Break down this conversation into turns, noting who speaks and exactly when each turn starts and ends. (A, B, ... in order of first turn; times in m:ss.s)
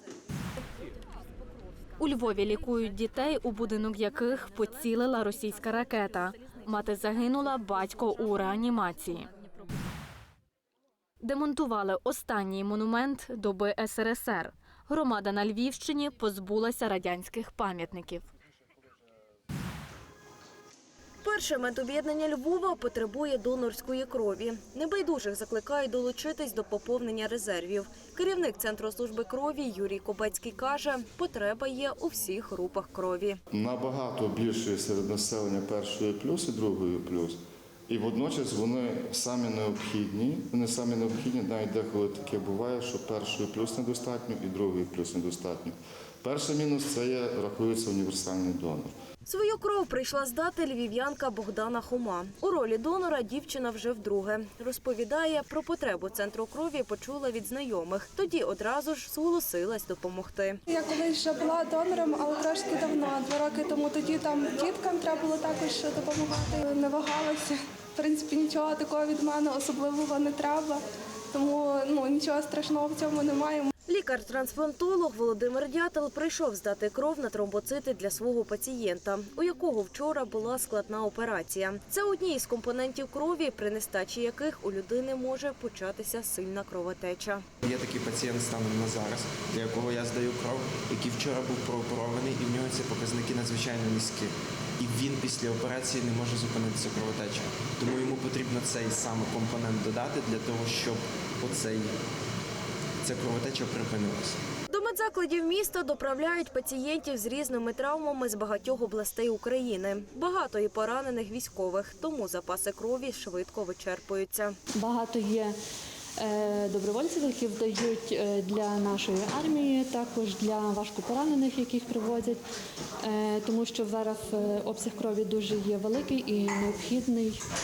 0:02.0-0:09.3 A
0:11.2-0:18.2 A
0:21.2-0:33.4 B
0:33.5-0:37.4 C
0:37.9-0:48.9 C
0:49.3-1:00.6 B
1:00.7-1:10.8 D
1:11.3-1:13.7 D
1:13.9-1:27.4 B
1:27.6-1:41.9 E
1:43.0-1:44.4 E
1:44.7-1:54.5 B
1:54.8-1:55.5 F
1:56.2-2:02.4 F
2:03.0-2:07.4 F